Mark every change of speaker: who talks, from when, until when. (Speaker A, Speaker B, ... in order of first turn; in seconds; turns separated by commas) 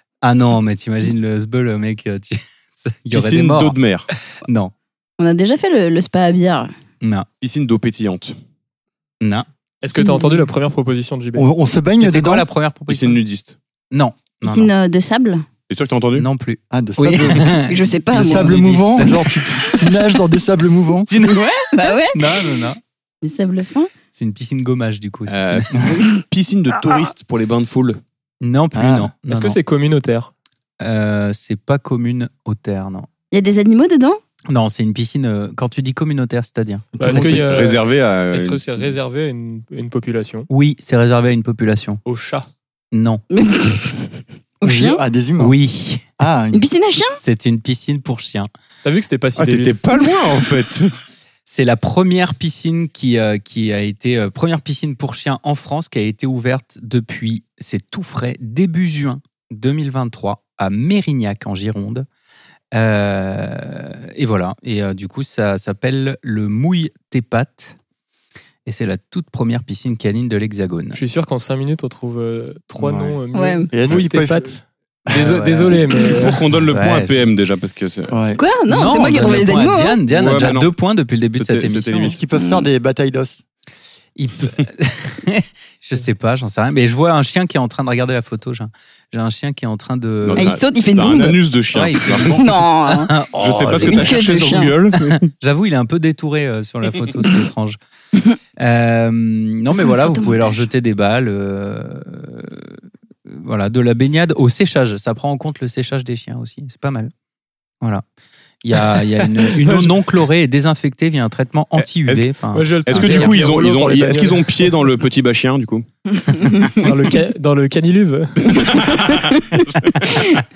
Speaker A: 0.2-3.8, Speaker B: 3.1-4.1, Speaker A: 4.4-4.7, Speaker C: 5.2-6.7, Speaker A: 7.0-7.3, Speaker B: 7.4-8.4, Speaker A: 9.2-9.5, Speaker D: 9.8-11.5, Speaker C: 9.9-10.5, Speaker E: 11.4-12.4, Speaker A: 12.0-13.2, Speaker B: 12.9-13.6, Speaker A: 13.9-14.7, Speaker C: 14.4-15.4, Speaker B: 15.7-16.3, Speaker A: 16.1-19.4, Speaker E: 16.7-21.1, Speaker C: 17.7-18.6, Speaker A: 21.1-22.8, Speaker C: 21.2-22.3, Speaker C: 23.2-23.9, Speaker A: 24.1-26.0, Speaker B: 25.3-28.0, Speaker A: 28.4-29.6, Speaker E: 28.8-29.1, Speaker D: 29.3-30.3, Speaker A: 30.8-33.1, Speaker C: 33.3-34.2, Speaker A: 34.5-37.2, Speaker E: 37.0-37.6, Speaker D: 37.0-40.5, Speaker B: 37.1-38.6, Speaker A: 40.5-42.0, Speaker D: 42.1-42.5, Speaker A: 42.9-43.2, Speaker C: 43.3-44.0, Speaker C: 44.6-45.0, Speaker E: 44.6-45.6, Speaker A: 45.4-46.0, Speaker E: 46.2-46.7, Speaker C: 46.5-47.2, Speaker A: 47.2-48.5, Speaker D: 48.8-49.8, Speaker B: 49.4-50.9, Speaker A: 51.5-62.1, Speaker A: 62.7-67.8, Speaker A: 68.7-71.0, Speaker D: 70.9-76.4, Speaker E: 72.8-74.6, Speaker C: 73.3-73.7, Speaker E: 75.1-75.4, Speaker A: 75.1-75.8, Speaker B: 76.0-78.2, Speaker A: 76.7-77.2, Speaker E: 78.1-78.4, Speaker C: 78.4-80.0, Speaker A: 78.7-82.2, Speaker B: 80.1-80.7, Speaker B: 81.3-82.2, Speaker E: 82.0-83.4, Speaker C: 82.3-82.7, Speaker A: 84.2-90.5, Speaker B: 90.2-92.7, Speaker C: 90.4-91.4, Speaker A: 91.7-97.8, Speaker C: 92.3-93.2, Speaker B: 93.3-95.3, Speaker C: 93.7-94.8, Speaker A: 98.6-107.1, Speaker C: 99.7-100.6, Speaker A: 108.6-113.4, Speaker D: 108.9-110.0, Speaker B: 111.8-112.3, Speaker D: 112.5-114.7, Speaker B: 112.9-115.9, Speaker C: 116.2-116.8, Speaker D: 116.8-118.7, Speaker B: 118.5-120.0, Speaker A: 120.1-120.4